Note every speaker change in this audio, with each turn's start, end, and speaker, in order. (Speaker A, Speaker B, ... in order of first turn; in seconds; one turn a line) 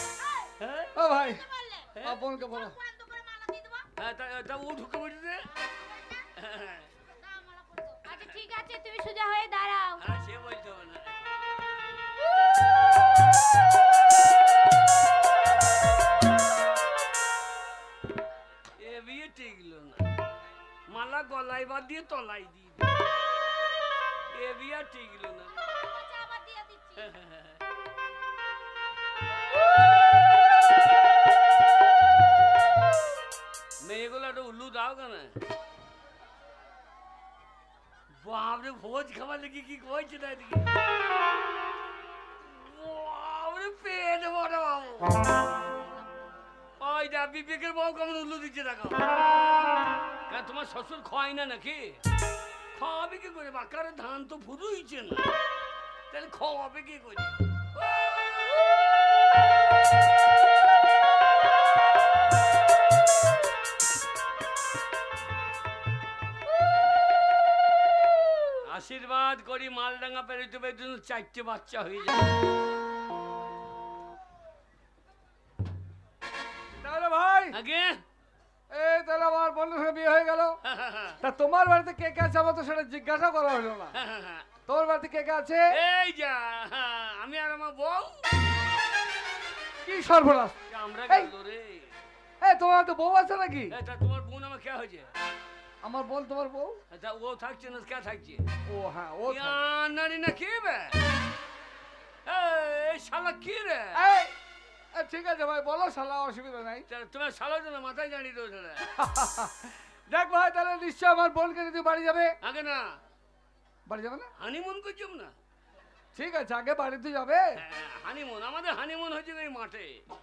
Speaker A: 0.2-0.5
Speaker B: 0.6-0.9
Speaker C: 0.9-1.4
Speaker A: 1.2-3.9
Speaker C: 2.0-2.8
Speaker B: 4.0-5.5
Speaker A: 5.6-6.3
Speaker B: 6.4-6.9
Speaker A: 7.0-10.0
Speaker B: 8.1-8.4
Speaker B: 10.0-11.2
Speaker B: 18.8-20.1
Speaker B: 20.9-22.9
Speaker B: 24.3-25.6
Speaker A: 25.7-27.1
Speaker B: 27.0-27.6
Speaker B: 33.8-35.4
Speaker B: 38.1-40.7
Speaker B: 42.4-45.2
Speaker B: 46.8-49.1
Speaker B: 50.3-52.0
Speaker B: 52.7-55.4
Speaker B: 56.1-58.7
Speaker B: 68.7-72.4
Speaker C: 76.8-77.6
Speaker B: 77.5-78.0
Speaker C: 78.7-80.6
Speaker B: 80.6-81.2
Speaker C: 81.2-84.0
Speaker B: 83.9-84.5
Speaker C: 84.7-85.8
Speaker B: 85.7-88.2
Speaker C: 89.8-90.6
Speaker B: 90.7-92.0
Speaker C: 92.4-93.7
Speaker B: 93.7-95.1
Speaker C: 95.8-96.8
Speaker B: 96.9-98.5
Speaker C: 98.7-99.6
Speaker B: 99.3-101.0
Speaker B: 102.2-104.0
Speaker C: 103.9-104.4
Speaker C: 104.9-106.9
Speaker B: 106.9-108.9
Speaker C: 109.0-112.4
Speaker B: 112.4-113.0
Speaker C: 113.9-114.3
Speaker B: 114.4-115.3
Speaker C: 116.2-117.6
Speaker B: 117.6-120.0